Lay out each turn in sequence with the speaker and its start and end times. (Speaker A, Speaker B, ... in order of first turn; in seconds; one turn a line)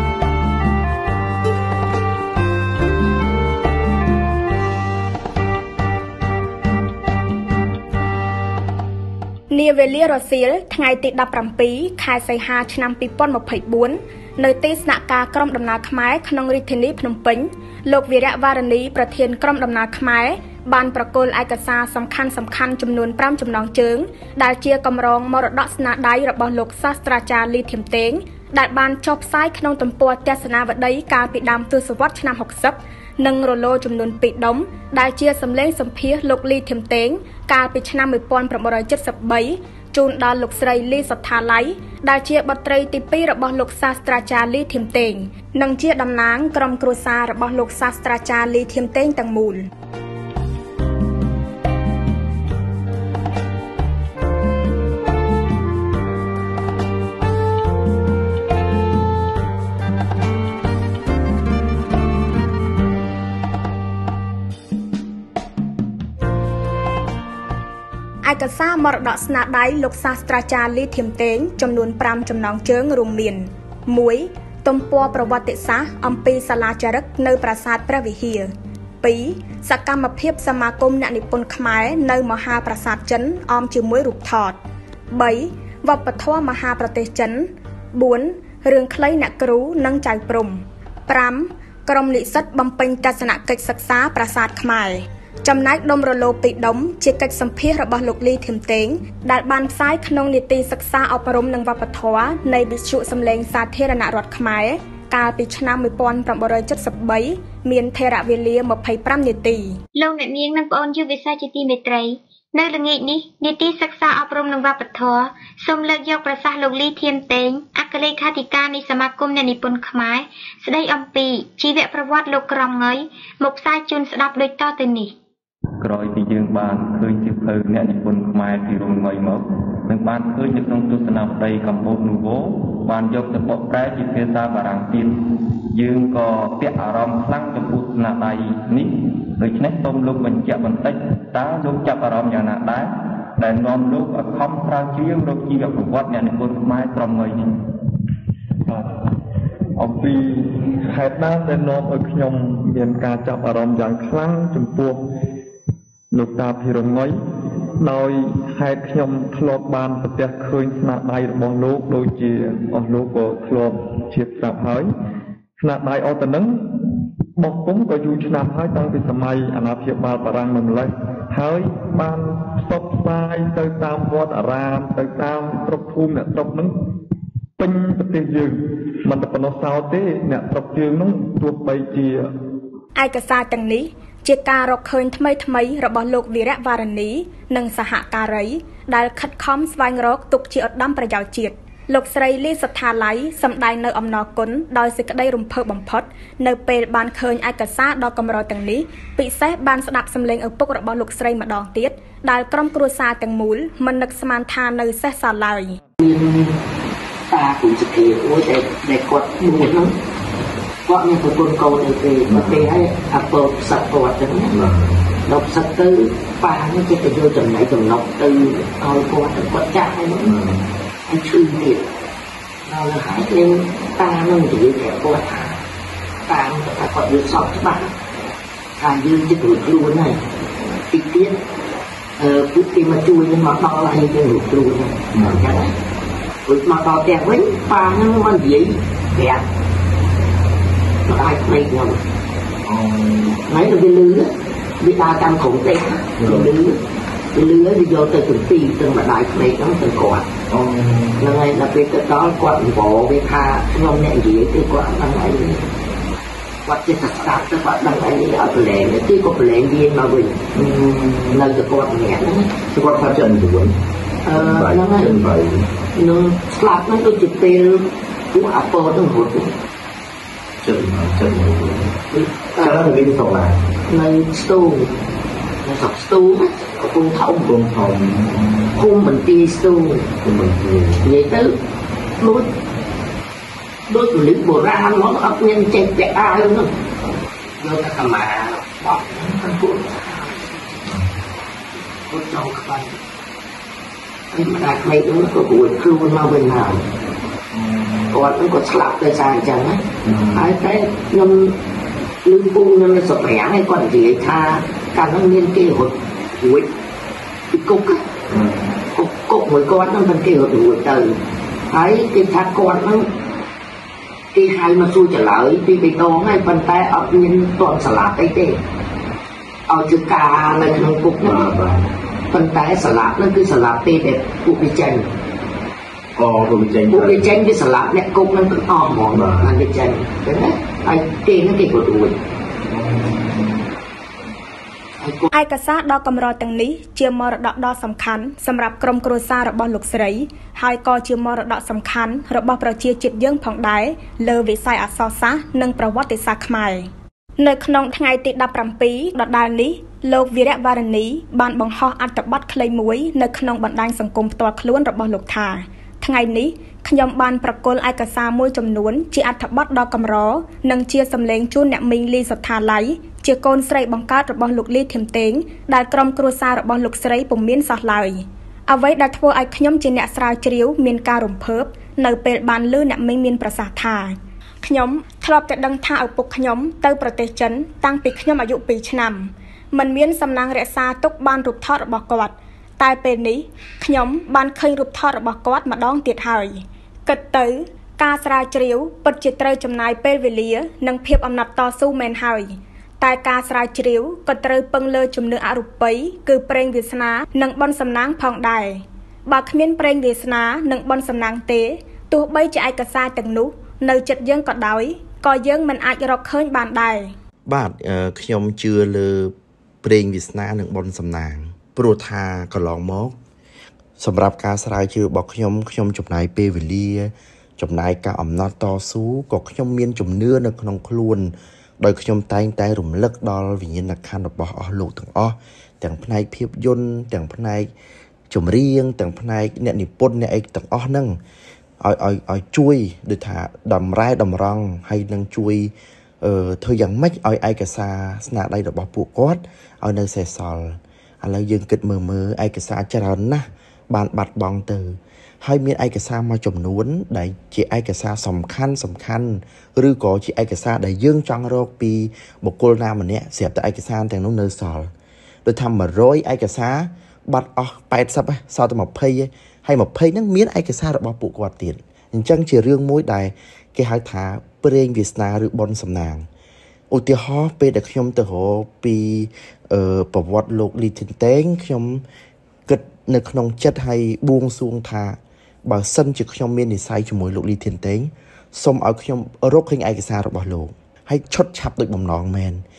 Speaker A: 9.5-49.7
Speaker A: 68.2-78.5
Speaker A: 79.0-84.6
Speaker A: 85.1-109.7
Speaker B: 110.0-125.1
Speaker C: 125.8-147.4
Speaker D: 149.8-155.0
Speaker D: 156.1-157.2
Speaker D: 157.8-164.9
Speaker D: 165.6-166.6
Speaker D: 167.4-176.7
Speaker D: 177.6-182.2
Speaker A: 182.9-205.8
Speaker E: 206.0-206.5
Speaker E: 207.3-209.9
Speaker E: 210.9-214.6
Speaker F: 212.3-212.9
Speaker F: 214.5-215.1
Speaker E: 215.2-220.3
Speaker F: 220.2-220.7
Speaker E: 221.1-221.8
Speaker E: 222.7-225.6
Speaker E: 226.3-227.9
Speaker E: 228.8-230.2
Speaker E: 230.9-231.4
Speaker E: 232.2-235.7
Speaker F: 235.1-235.4
Speaker E: 236.4-239.4
Speaker E: 241.1-242.0
Speaker F: 242.6-243.4
Speaker E: 243.5-246.8
Speaker F: 246.2-246.5
Speaker E: 247.3-250.3
Speaker F: 250.5-251.3
Speaker E: 251.2-255.7
Speaker E: 256.6-260.4
Speaker F: 260.5-261.4
Speaker E: 261.3-262.6
Speaker F: 262.7-263.8
Speaker E: 264.2-265.2
Speaker F: 264.3-265.7
Speaker E: 265.9-269.5
Speaker F: 270.6-271.9
Speaker E: 272.1-272.9
Speaker F: 272.6-273.7
Speaker E: 273.9-274.9
Speaker E: 275.6-277.5
Speaker F: 277.4-278.7
Speaker E: 278.8-280.1
Speaker F: 280.2-281.1
Speaker E: 281.0-281.6
Speaker E: 282.2-282.5
Speaker E: 283.9-286.7
Speaker E: 287.6-290.9
Speaker E: 291.7-293.0
Speaker E: 294.3-296.8
Speaker F: 297.5-298.2
Speaker E: 298.1-301.5
Speaker F: 300.0-300.4
Speaker E: 302.2-306.7
Speaker E: 307.5-308.1
Speaker F: 308.3-308.7
Speaker E: 308.9-311.1
Speaker E: 311.7-313.1
Speaker E: 314.3-318.6
Speaker E: 319.7-321.5
Speaker F: 321.2-321.9
Speaker E: 322.3-325.1
Speaker F: 326.1-327.3
Speaker E: 326.9-332.2
Speaker F: 329.1-329.5
Speaker F: 332.7-333.6
Speaker E: 335.0-335.3
Speaker A: 335.3-346.9
Speaker A: 347.4-407.1
Speaker G: 407.5-413.1
Speaker G: 414.0-427.7
Speaker G: 428.3-431.2
Speaker G: 431.8-454.9
Speaker G: 455.4-466.2
Speaker G: 466.9-472.0
Speaker G: 472.7-482.6